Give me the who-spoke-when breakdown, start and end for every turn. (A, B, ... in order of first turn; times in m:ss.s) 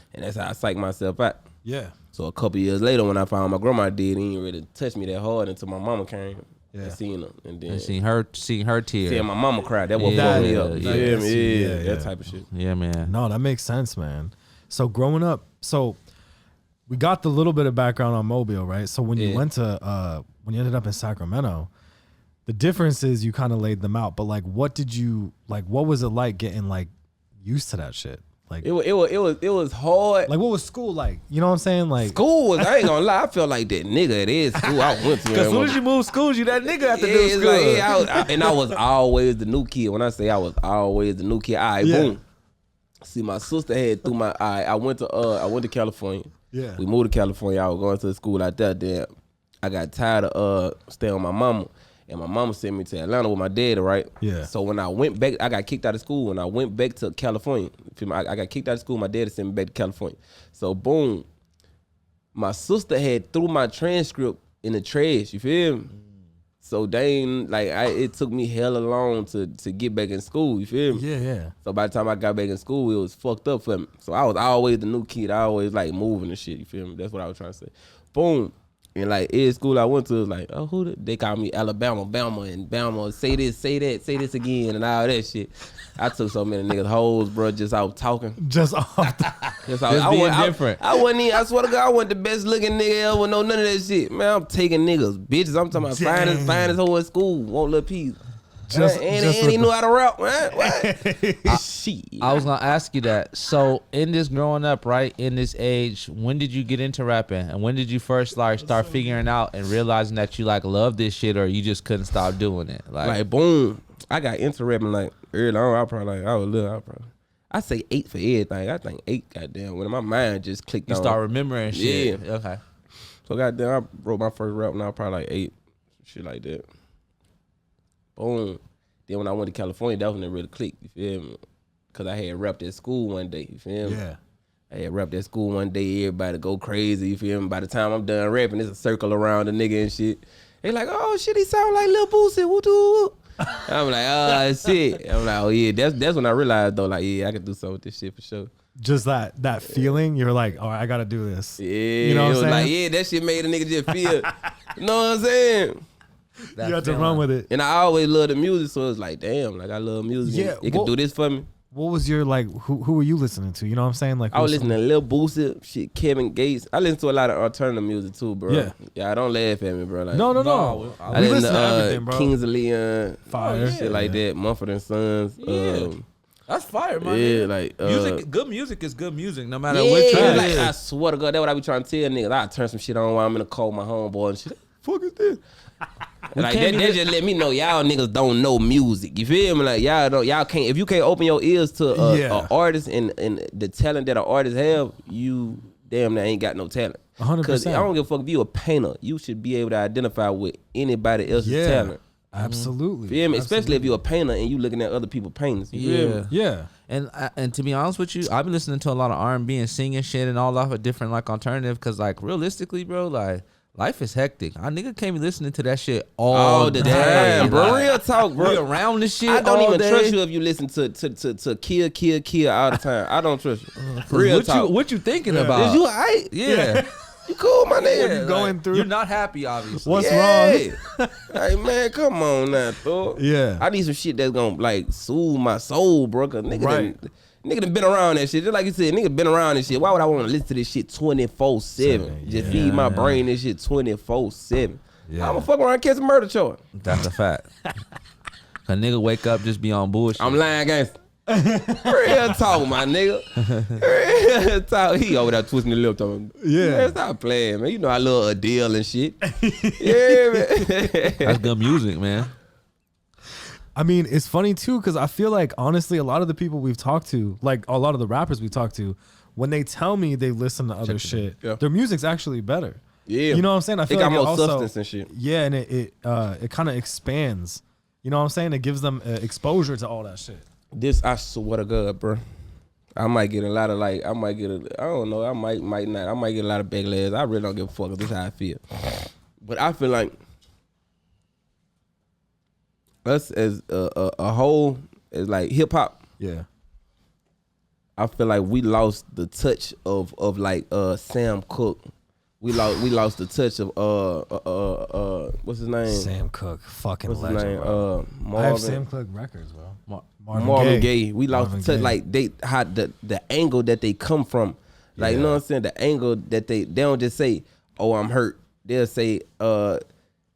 0:00.1-0:01.4 A
0:01.6-0:02.0 B
0:02.1-0:07.9 A
0:07.7-0:09.3 C
0:09.1-0:12.5 A
0:10.0-0:11.2 C
0:10.0-0:12.1 B
0:12.5-0:13.1 C
0:13.0-0:16.0 B
0:16.9-0:21.7 B
0:19.2-0:19.4 C
0:22.5-0:28.7 B
0:28.6-0:30.3 A
0:30.3-0:32.9 B
0:32.0-0:35.8 A
0:34.6-0:34.9 B
0:35.3-0:38.0 C
0:36.9-0:42.2 A
0:41.8-0:42.2 B
0:43.0-0:49.1 A
0:46.5-0:46.8 B
0:49.6-1:01.3 A
0:54.2-0:54.5 B
1:02.4-1:05.9 A
1:06.6-1:11.0 A
1:10.9-1:11.5 B
1:11.6-1:28.4 A
1:28.4-1:29.6 B
1:29.6-1:38.2 A
1:29.9-1:30.8 C
1:35.8-1:36.8 B
1:38.7-1:39.7 B
1:38.7-1:42.4 A
1:40.5-1:41.6 B
1:42.2-1:53.2 C
1:53.0-2:01.2 A
2:00.9-2:02.6 C
2:01.7-2:02.2 A
2:03.3-2:06.7 A
2:08.2-2:11.4 A
2:11.9-2:14.0 A
2:13.8-2:14.2 B
2:14.7-2:28.5 A
2:28.8-2:32.7 B
2:31.6-2:35.8 A
2:34.0-2:34.5 B
2:36.5-2:37.5 B
2:36.6-2:37.3 C
2:37.5-2:41.5 A
2:40.2-2:41.0 B
2:41.7-2:44.8 B
2:44.3-2:50.3 A
2:48.5-2:48.8 B
2:50.1-2:52.3 B
2:50.4-2:51.5 C
2:51.1-2:56.0 A
2:53.3-2:54.2 B
2:53.4-2:54.0 C
2:55.4-2:55.9 C
2:56.5-3:00.7 C
2:57.0-2:58.2 A
2:59.7-3:05.4 A
3:00.1-3:00.7 B
3:06.3-3:22.0 A
3:06.4-3:07.0 C
3:11.9-3:12.5 B
3:17.2-3:17.9 B
3:21.4-3:24.0 B
3:22.4-3:22.7 C
3:23.1-3:26.2 A
3:25.7-3:26.3 C
3:26.3-3:26.7 B
3:26.9-3:40.2 C
3:36.3-3:38.6 A
3:36.8-3:37.9 B
3:39.2-3:44.7 A
3:43.8-3:44.0 B
3:44.1-3:46.9 C
3:45.3-3:45.7 B
3:45.5-3:46.3 A
3:46.4-3:47.0 B
3:47.3-3:48.2 A
3:47.8-3:50.1 C
3:47.9-3:48.9 B
3:49.7-3:51.4 B
3:49.9-3:50.8 A
3:51.3-4:06.6 A
3:53.2-3:53.6 B
3:56.5-3:56.9 B
4:01.8-4:02.8 B
4:02.4-4:03.2 C
4:05.1-4:05.5 B
4:06.8-4:07.5 C
4:08.7-4:10.4 C
4:10.2-4:11.0 A
4:11.3-4:12.4 B
4:11.8-4:19.2 A
4:13.4-4:13.8 C
4:16.4-4:17.0 B
4:19.2-4:20.9 B
4:19.8-4:21.4 A
4:21.2-4:22.3 C
4:23.8-4:40.5 B
4:30.8-4:31.3 C
4:33.1-4:35.1 A
4:40.7-4:42.2 A
4:43.0-4:50.2 A
4:53.0-4:56.0 A
4:56.2-4:56.5 B
4:58.0-5:01.9 A
5:02.4-5:06.1 A
5:05.9-5:12.0 B
5:07.1-5:08.8 A
5:10.3-5:19.8 A
5:15.0-5:15.4 B